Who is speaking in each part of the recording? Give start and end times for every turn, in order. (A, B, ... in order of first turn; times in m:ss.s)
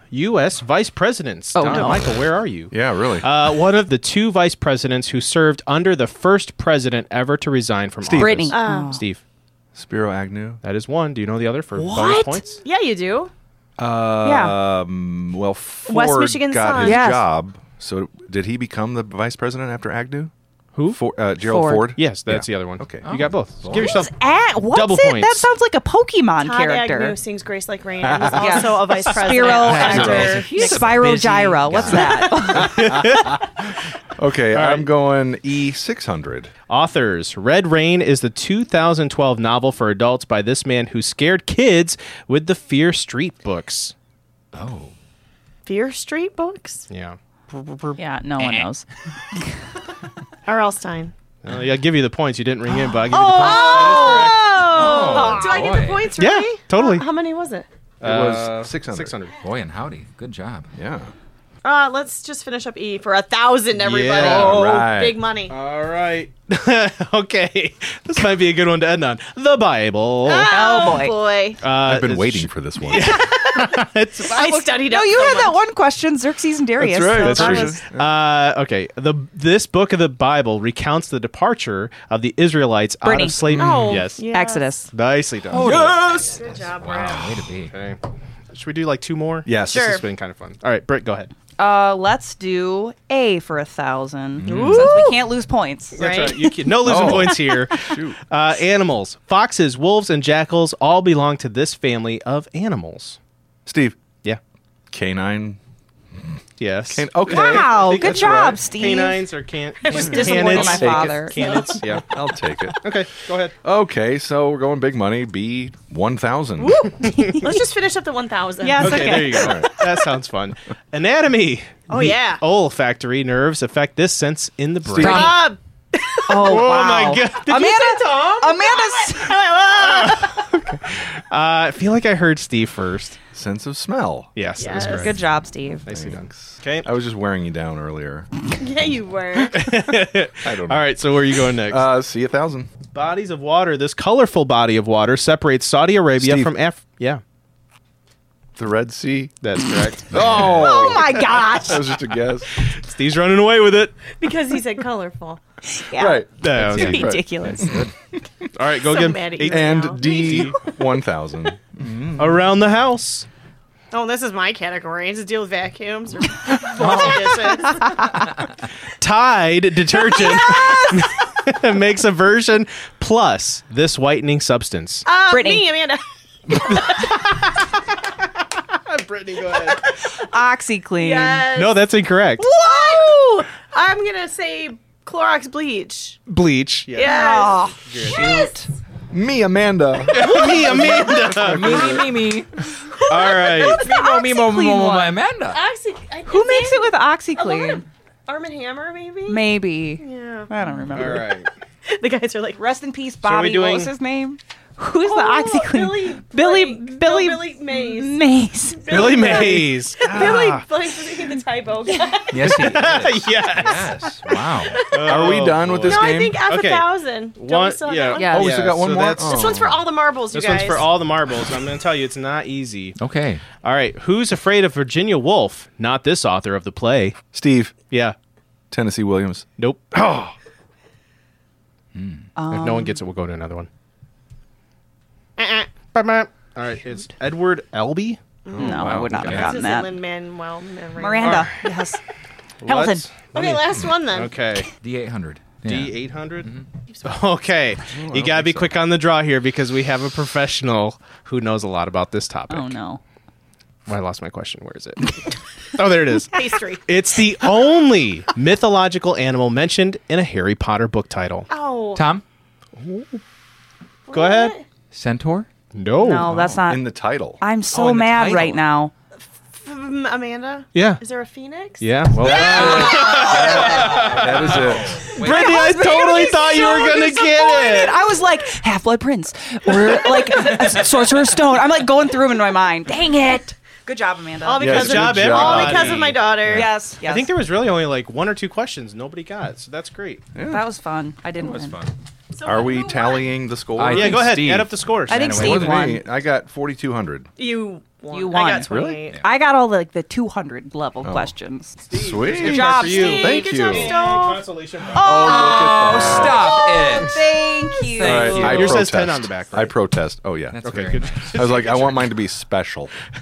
0:00.1-0:09.2 A
0:01.5-0:02.0 B
0:02.7-0:03.3 C
0:08.0-0:08.5 C
0:08.1-0:09.0 B
0:08.5-0:09.0 D
0:09.7-0:10.6 C
0:10.6-0:12.6 A
0:11.8-0:12.4 B
0:12.6-0:13.3 D
0:13.8-0:20.3 C
0:14.2-0:14.6 B
0:15.9-0:17.0 D
0:16.8-0:17.2 B
0:20.7-0:21.0 A
0:20.9-0:23.9 C
0:21.5-0:21.9 B
0:22.0-0:25.5 A
0:23.0-0:23.9 E
0:23.7-0:27.2 B
0:26.4-0:31.0 D
0:28.0-0:29.0 C
0:28.4-0:32.9 B
0:29.5-0:32.3 E
0:29.8-0:30.4 C
0:31.7-0:36.5 C
0:32.2-0:33.5 A
0:34.5-0:34.9 A
0:36.7-0:43.9 A
0:44.5-0:44.9 E
0:45.6-0:46.8 D
0:46.9-0:48.0 A
0:48.0-0:48.8 B
0:48.4-0:48.7 E
0:50.4-0:51.1 D
0:51.4-0:55.4 A
0:53.1-0:54.3 B
0:53.4-0:57.7 D
0:54.7-0:56.2 E
0:56.2-0:57.0 A
0:58.0-0:59.4 A
0:58.0-0:59.1 C
0:59.4-1:00.7 E
1:00.7-1:01.1 C
1:01.6-1:05.5 D
1:03.7-1:10.7 A
1:04.2-1:05.2 C
1:10.2-1:11.6 D
1:10.4-1:11.2 B
1:11.6-1:14.7 A
1:11.8-1:13.2 C
1:12.9-1:15.6 D
1:14.4-1:17.8 B
1:16.8-1:18.1 C
1:17.2-1:24.2 A
1:23.0-1:23.4 B
1:23.5-1:24.0 C
1:23.6-1:24.8 D
1:24.3-1:24.9 B
1:24.9-1:26.1 A
1:25.5-1:27.7 E
1:25.9-1:27.3 D
1:27.6-1:28.0 A
1:28.5-1:31.3 A
1:29.4-1:30.0 C
1:29.6-1:30.0 D
1:31.6-1:36.0 B
1:34.4-1:35.0 E
1:34.4-1:35.3 D
1:35.9-1:36.5 D
1:36.0-1:43.2 A
1:36.8-1:38.2 C
1:36.9-1:37.5 B
1:43.6-1:44.0 C
1:44.9-1:45.6 C
1:46.2-1:48.6 C
1:46.6-1:52.2 A
1:47.3-1:49.2 B
1:49.8-1:51.7 D
1:49.9-1:51.8 B
1:50.3-1:53.0 C
1:52.8-1:53.5 A
1:53.6-1:56.9 C
1:56.6-1:59.4 D
1:57.0-1:57.4 A
1:57.2-1:57.6 B
1:58.6-1:59.7 B
1:58.8-2:05.4 A
1:59.3-1:59.8 C
2:01.9-2:02.4 D
2:05.0-2:05.5 E
2:05.0-2:06.7 D
2:06.3-2:09.4 B
2:06.4-2:08.3 A
2:07.6-2:10.4 D
2:09.8-2:13.2 A
2:13.3-2:14.3 C
2:14.3-2:15.2 A
2:14.6-2:15.2 D
2:14.8-2:15.8 B
2:15.8-2:16.9 A
2:15.9-2:18.3 C
2:18.6-2:19.6 D
2:19.5-2:21.9 A
2:20.4-2:22.7 C
2:22.9-2:27.2 A
2:26.2-2:26.5 C
2:28.6-2:29.3 C
2:29.4-2:31.4 A
2:30.1-2:32.6 C
2:30.4-2:31.8 B
2:32.6-2:34.1 A
2:34.1-2:35.4 D
2:35.7-2:37.7 B
2:35.9-2:37.9 C
2:36.4-2:37.2 A
2:37.5-2:37.9 E
2:38.5-2:40.6 A
2:38.8-2:40.5 D
2:39.4-2:42.5 C
2:42.1-2:43.3 A
2:43.9-2:48.0 D
2:46.8-2:47.5 E
2:49.0-2:55.0 A
2:55.0-2:57.2 D
2:55.3-2:55.7 B
2:58.7-2:59.9 A
2:59.6-3:00.1 D
3:00.2-3:01.5 B
3:01.0-3:01.9 D
3:01.5-3:02.5 A
3:02.4-3:06.2 D
3:02.4-3:03.2 B
3:06.3-3:07.2 A
3:06.9-3:08.5 D
3:07.0-3:08.7 B
3:07.8-3:08.5 A
3:09.1-3:12.1 C
3:10.1-3:12.0 A
3:10.8-3:12.6 E
3:13.0-3:14.3 D
3:13.1-3:13.8 A
3:13.6-3:15.2 B
3:13.6-3:15.6 E
3:15.5-3:20.5 D
3:16.2-3:17.8 B
3:19.3-3:21.3 B
3:20.9-3:21.5 A
3:21.9-3:22.6 D
3:22.6-3:29.2 B
3:23.2-3:23.9 A
3:25.0-3:28.2 D
3:28.7-3:32.6 D
3:28.9-3:30.6 A
3:32.3-3:34.8 E
3:32.4-3:34.2 A
3:34.7-3:35.3 D
3:34.9-3:39.6 A
3:35.1-3:36.4 C
3:35.8-3:38.5 D
3:38.1-3:38.5 B
3:38.3-3:39.8 C
3:39.2-3:40.9 D
3:40.3-3:43.0 A
3:43.0-3:43.4 E
3:43.6-3:47.2 A
3:47.3-3:47.7 C
3:47.9-3:48.2 A
3:48.7-3:50.3 C
3:49.6-3:49.9 A
3:51.9-3:52.3 E
3:52.4-3:53.0 B
3:52.5-3:53.7 A
3:55.4-3:55.7 D
3:55.9-3:58.2 A
3:58.4-4:01.5 D
3:58.5-3:59.2 C
3:58.6-4:00.0 B
3:58.6-3:59.5 E
4:01.0-4:02.0 B
4:01.2-4:01.6 A
4:02.6-4:04.7 A
4:02.6-4:03.0 B
4:03.3-4:04.3 D
4:04.8-4:06.6 E
4:05.6-4:12.8 A
4:07.9-4:08.8 C
4:12.5-4:13.0 B
4:13.9-4:21.5 A
4:16.3-4:16.8 D
4:21.5-4:22.1 D
4:22.0-4:22.2 E
4:22.8-4:23.2 A
4:24.1-4:24.6 D
4:24.1-4:24.5 A
4:24.9-4:25.5 E
4:25.7-4:26.4 A
4:26.0-4:28.9 B
4:26.4-4:27.4 C
4:27.7-4:28.6 E
4:29.5-4:32.6 D
4:30.7-4:31.0 A
4:31.8-4:38.0 A
4:32.2-4:35.1 C
4:32.4-4:35.5 E
4:35.2-4:45.0 B
4:35.6-4:37.3 D
4:40.5-4:40.8 E
4:44.4-4:46.7 D
4:44.6-4:46.2 A
4:44.6-4:46.0 C
4:45.8-4:47.3 B
4:47.0-4:50.2 A
4:50.3-4:50.6 C
4:50.4-4:51.8 B
4:51.4-4:51.9 E
4:52.3-4:53.3 D
4:52.4-4:54.4 C
4:53.8-4:55.9 E
4:53.9-4:55.5 A
4:55.1-4:56.0 B
4:55.2-4:57.3 C
4:57.4-4:59.2 D
4:58.1-5:01.8 B
4:58.7-4:59.0 C
5:01.0-5:01.3 C
5:01.8-5:06.2 A
5:01.9-5:03.9 C
5:02.4-5:03.4 B
5:02.8-5:04.4 D
5:04.9-5:08.4 B
5:05.0-5:06.6 C
5:05.2-5:07.2 E
5:07.9-5:08.9 E
5:08.0-5:12.9 C
5:08.0-5:09.7 A
5:10.5-5:11.5 E
5:10.6-5:12.1 A